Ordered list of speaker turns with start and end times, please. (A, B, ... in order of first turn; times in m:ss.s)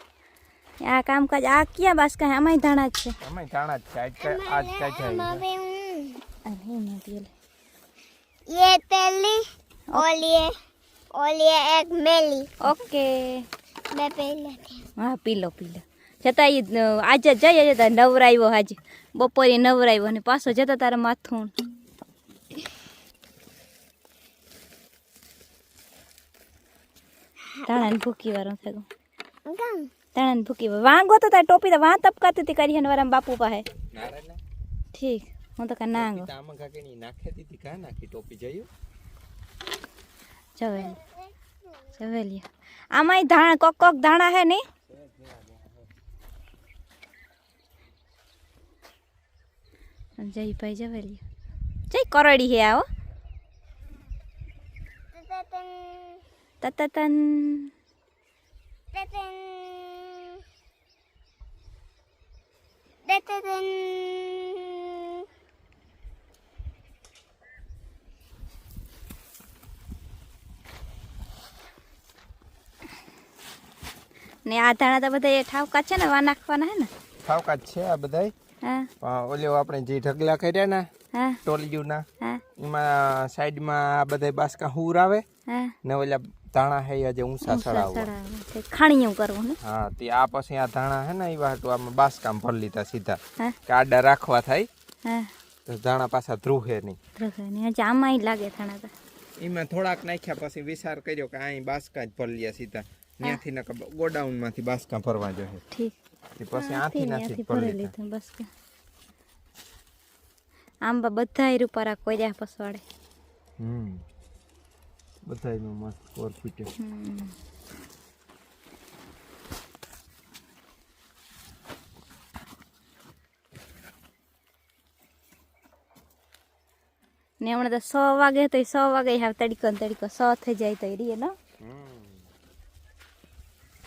0:00.8-0:03.2 A
0:03.2-0:05.4 B
0:04.2-0:06.2 C
0:06.4-0:07.3 A
0:08.5-0:10.6 C
0:11.1-0:12.6 C
0:12.6-0:13.5 A
0:13.9-0:14.8 C
0:15.0-0:21.5 A
0:27.6-0:28.9 A
0:29.5-0:29.9 C
0:30.2-0:33.7 A
0:33.9-0:34.4 B
0:34.9-0:36.3 A
0:36.0-0:38.7 B
0:40.6-0:41.0 A
0:41.9-0:44.6 A
0:45.0-0:45.7 B
0:50.2-0:51.2 A
0:51.9-0:52.9 A
0:55.1-0:56.2 C
0:56.6-0:57.7 A
0:58.9-1:00.4 C
1:03.0-1:05.3 C
1:14.5-1:16.9 A
1:17.2-1:18.3 B
1:18.6-1:18.9 A
1:19.0-1:20.9 B
1:21.1-1:21.4 A
1:21.4-1:22.1 B
1:22.6-1:25.2 B
1:25.5-1:25.7 A
1:25.8-1:28.1 B
1:27.4-1:29.6 A
1:29.6-1:34.7 B
1:35.0-1:35.3 A
1:35.7-1:37.0 B
1:37.2-1:38.9 A
1:39.4-1:45.6 B
1:46.4-1:47.9 B
1:46.5-1:48.5 A
1:50.8-1:52.8 A
1:53.6-1:54.0 B
1:55.3-1:56.7 B
1:56.8-1:57.4 A
2:07.4-2:11.4 A
2:11.6-2:12.3 B